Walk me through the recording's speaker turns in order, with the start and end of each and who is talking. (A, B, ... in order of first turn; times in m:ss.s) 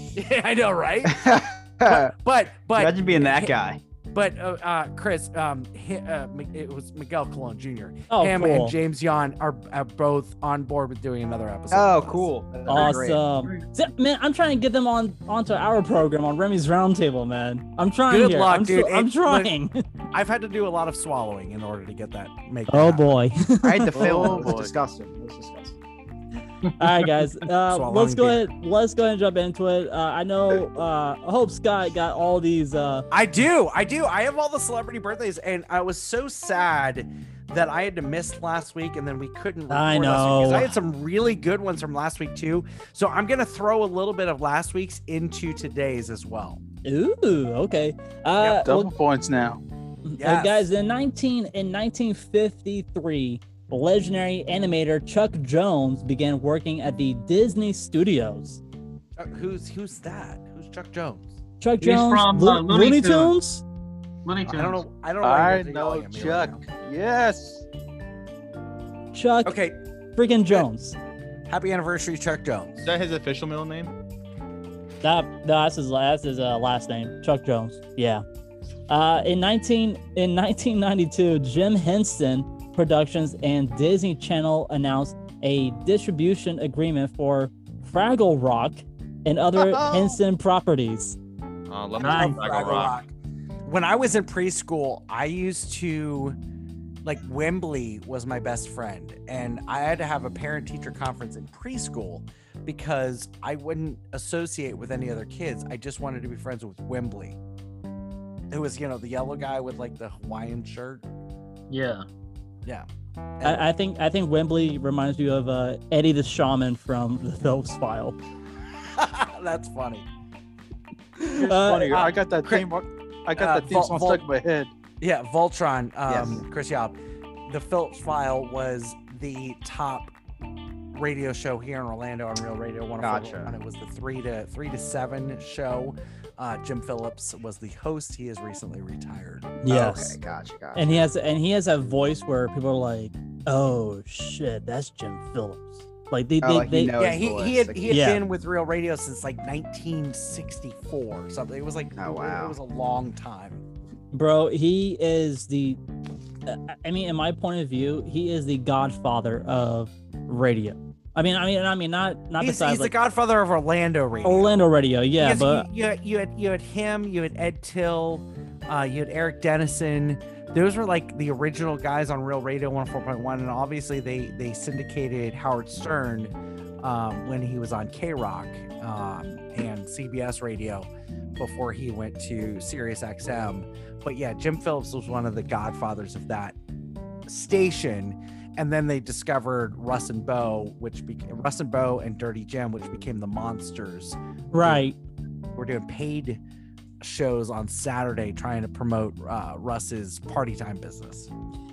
0:00.2-0:03.6 A
0:01.1-0:02.1 B
0:02.8-0:03.8 B
0:04.1-0:12.9 A
0:08.1-0:08.8 C
0:11.7-0:13.6 B
0:12.7-0:19.8 C
0:18.1-0:19.6 A
0:20.1-0:23.1 A
0:22.7-0:24.3 C
0:23.6-0:25.8 B
0:24.0-0:24.7 D
0:26.8-0:33.0 C
0:27.7-0:28.5 A
0:33.1-0:46.6 A
0:39.7-0:40.7 C
0:46.8-0:48.9 C
0:48.4-0:49.6 D
0:50.0-0:58.6 C
0:50.2-0:50.7 A
0:59.2-1:01.4 A
1:01.6-1:03.6 C
1:01.8-1:03.4 E
1:04.2-1:04.8 E
1:04.5-1:06.6 A
1:05.2-1:07.7 D
1:09.1-1:09.6 C
1:09.4-1:09.8 A
1:10.2-1:11.0 C
1:11.5-1:12.9 A
1:12.8-1:13.9 F
1:15.0-1:18.2 C
1:18.9-1:31.2 C
1:31.7-1:33.0 F
1:32.0-1:33.1 A
1:33.6-1:36.4 A
1:37.0-1:47.4 A
1:48.5-1:51.0 A
1:51.7-1:52.0 E
1:53.4-1:53.6 A
1:53.4-1:58.2 C
1:58.9-2:00.1 A
2:01.2-2:02.1 C
2:01.3-2:04.7 D
2:01.9-2:02.7 A
2:03.4-2:04.3 A
2:05.0-2:10.1 A
2:06.1-2:06.4 B
2:10.9-2:19.8 A
2:13.0-2:13.5 B
2:19.6-2:20.2 C
2:19.7-2:21.0 B
2:20.8-2:26.9 C
2:26.4-2:27.9 B
2:27.0-2:33.6 A
2:27.9-2:28.2 C
2:32.0-2:32.6 B
2:34.1-2:35.8 C
2:36.5-2:42.9 C
2:42.4-2:44.6 A
2:44.2-2:45.7 C
2:45.2-3:06.6 A
3:07.3-3:14.9 A
3:14.5-3:15.0 C
3:15.6-3:16.4 A
3:17.0-3:21.3 A